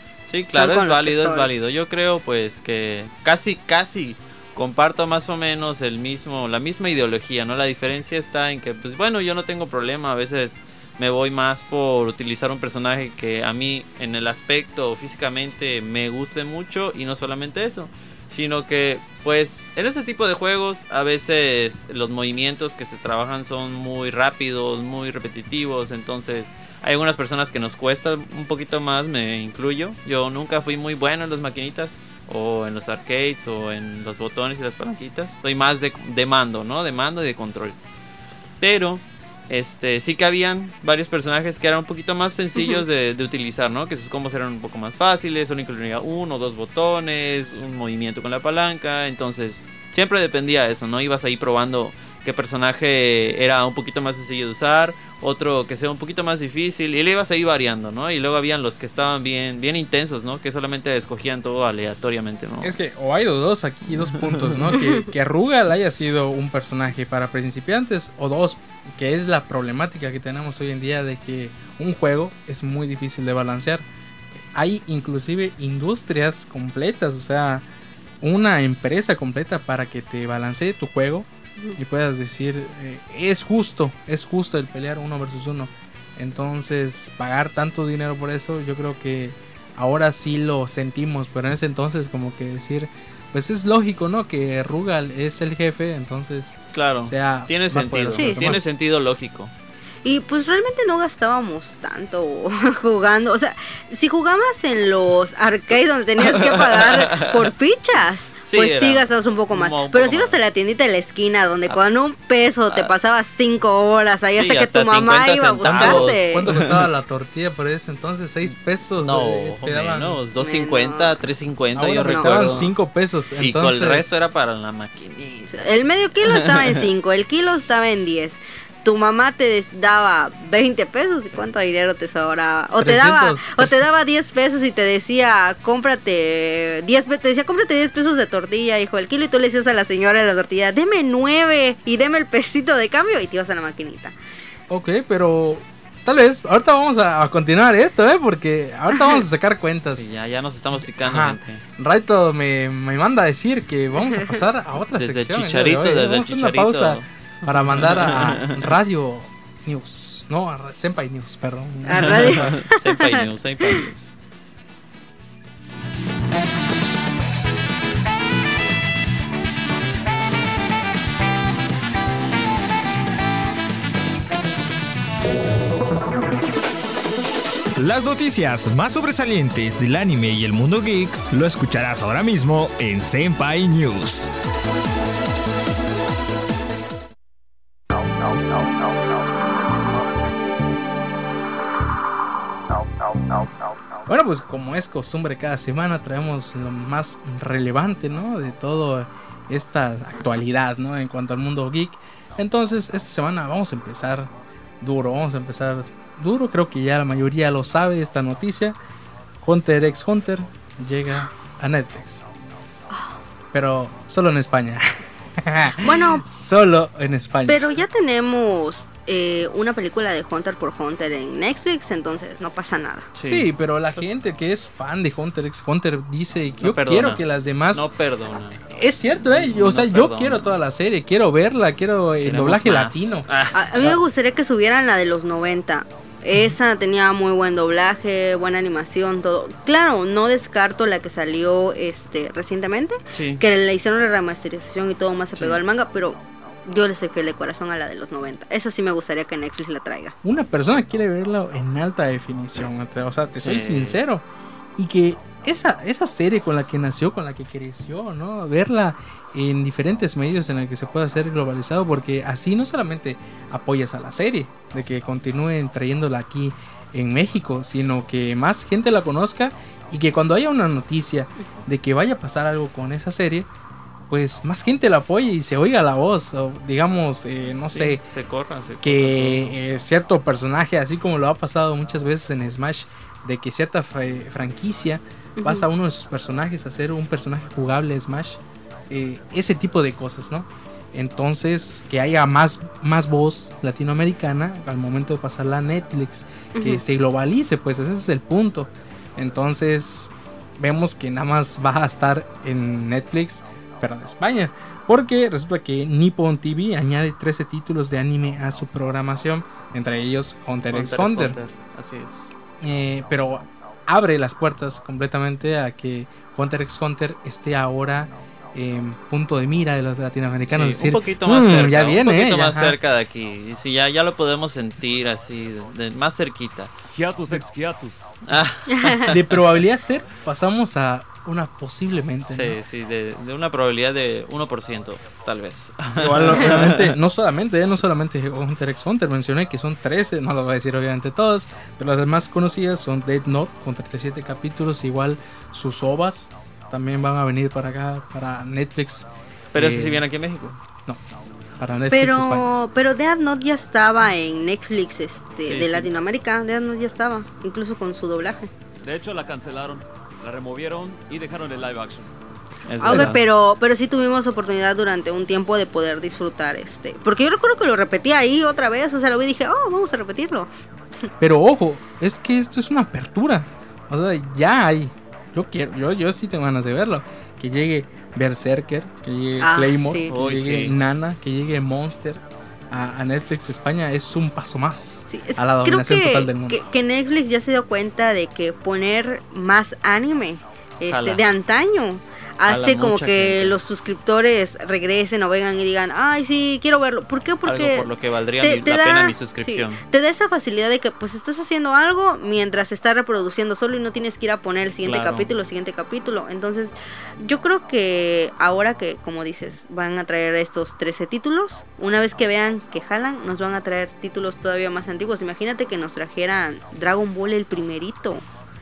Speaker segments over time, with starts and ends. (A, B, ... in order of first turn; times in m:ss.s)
0:00.3-0:37.8 A
0:00.5-0:01.5 B
0:38.6-1:02.7 A
0:42.6-0:42.8 B
1:02.6-1:17.7 C
1:03.9-1:04.6 A
1:18.2-1:38.7 C
1:36.7-1:39.5 A
1:38.1-1:38.5 B
1:40.0-1:56.4 B
1:46.2-1:47.5 A
1:48.4-1:50.4 A
1:54.4-1:56.8 A
1:55.6-2:00.2 C
1:59.0-2:02.7 A
2:00.4-2:01.3 B
2:01.8-2:04.2 C
2:02.1-2:02.7 B
2:03.4-2:05.7 A
2:05.5-2:24.2 B
2:06.2-2:06.8 A
2:12.8-2:13.9 C
2:24.7-2:30.1 C
2:30.0-2:31.6 A
2:31.0-2:42.5 C
2:35.0-2:38.7 A
2:41.9-2:43.1 B
2:41.9-2:44.1 A
2:57.8-3:04.3 D
3:14.1-3:28.8 C
3:29.4-3:32.2 C
3:32.9-3:33.2 B
3:33.5-3:37.6 C
3:35.8-3:36.3 B
3:37.5-3:43.1 B
3:43.2-3:44.0 A
3:43.2-3:47.9 C
3:46.6-3:50.6 A
3:48.7-3:53.3 C
3:52.2-3:54.0 A
3:53.5-4:10.2 B
4:03.1-4:03.4 A
4:10.2-4:14.2 C
4:13.4-4:14.0 A
4:14.8-4:33.5 C
4:34.1-4:38.0 C
4:37.7-4:39.6 A
4:38.8-4:48.4 C
4:45.4-4:45.7 B
4:48.9-5:11.4 C
4:56.6-4:56.8 B
5:10.7-5:12.4 A
5:12.6-5:22.8 C
5:20.5-5:26.7 A
5:26.9-5:28.1 E
5:28.3-5:29.2 A
5:29.0-5:32.6 C
5:32.3-5:36.9 A
5:36.0-5:50.1 C
5:49.5-5:50.6 A
5:51.5-5:52.6 C
5:51.9-5:58.5 B
5:55.4-5:55.9 A
5:58.8-6:02.1 E
6:02.7-6:03.2 A
6:02.8-6:10.5 B
6:02.9-6:03.2 C
6:11.2-6:26.6 C
6:19.4-6:20.1 B
6:20.1-6:20.8 A
6:25.1-6:37.9 B
6:30.9-6:31.2 A
6:32.5-6:33.6 A
6:37.4-6:39.8 A
6:38.4-6:58.2 B
6:44.8-6:45.3 A